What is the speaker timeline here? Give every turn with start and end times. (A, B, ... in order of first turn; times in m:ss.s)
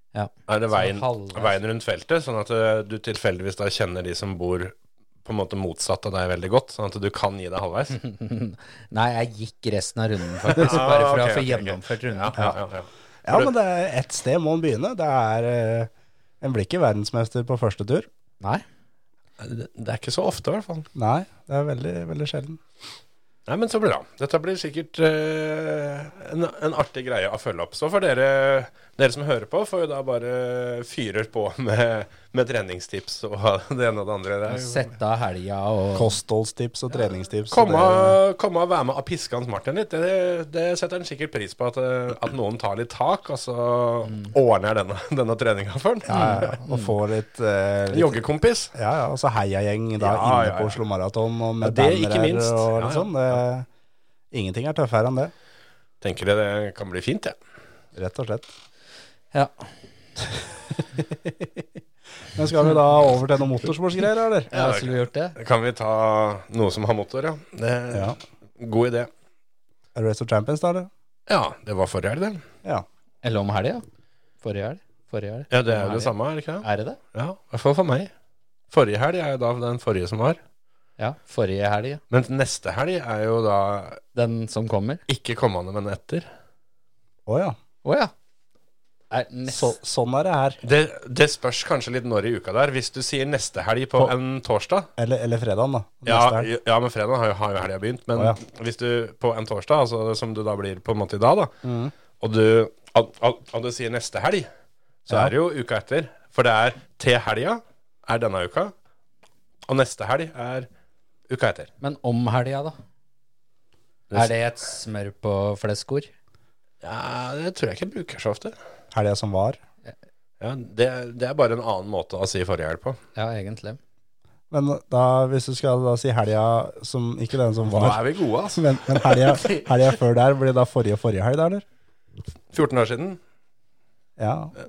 0:00.1-0:01.6 A
0:00.5-0:08.0 B
0:07.9-0:12.5 A
0:10.5-0:13.5 B
0:13.2-0:15.9 C
0:16.4-0:18.1 C
0:19.4-0:20.9 B
0:21.0-0:22.6 C
0:23.5-0:34.9 B
0:34.5-0:36.2 A
0:36.0-0:38.2 C
0:37.5-0:46.6 B
0:46.1-0:46.9 A
0:46.1-0:48.2 C
0:47.9-0:48.7 B
0:48.7-0:53.7 C
0:50.0-0:50.8 B
0:51.6-0:53.4 B
0:54.3-0:55.3 C
0:56.0-0:57.4 B
0:58.0-0:58.5 C
0:59.3-0:59.7 A
1:00.3-1:01.6 C
1:02.3-1:04.5 C
1:04.5-1:05.4 A
1:04.5-1:09.1 B
1:07.9-1:08.2 C
1:10.0-1:10.9 C
1:11.3-1:12.4 B
1:13.2-1:13.8 A
1:14.4-1:17.0 A
1:15.5-1:18.1 B
1:18.7-1:20.4 B
1:21.0-1:22.0 A
1:22.1-1:24.0 B
1:24.2-1:25.0 A
1:25.1-1:26.3 B
1:27.3-1:27.6 C
1:27.8-1:28.1 A
1:29.1-1:29.8 A
1:29.5-1:30.6 C
1:30.6-1:34.9 B
1:35.0-1:36.5 C
1:36.0-1:41.5 B
1:41.6-1:41.9 C
1:42.2-1:44.5 B
1:45.1-1:48.7 B
1:45.1-1:45.3 C
1:49.7-1:50.7 B
1:51.3-1:51.7 B
1:51.8-1:52.8 A
1:54.1-1:56.1 A
1:56.8-1:58.6 B
1:58.9-1:59.6 C
2:00.4-2:03.0 B
2:03.2-2:03.8 A
2:04.5-2:08.0 C
2:07.7-2:09.6 B
2:08.5-2:11.6 C
2:12.5-2:13.2 B
2:14.2-2:14.5 C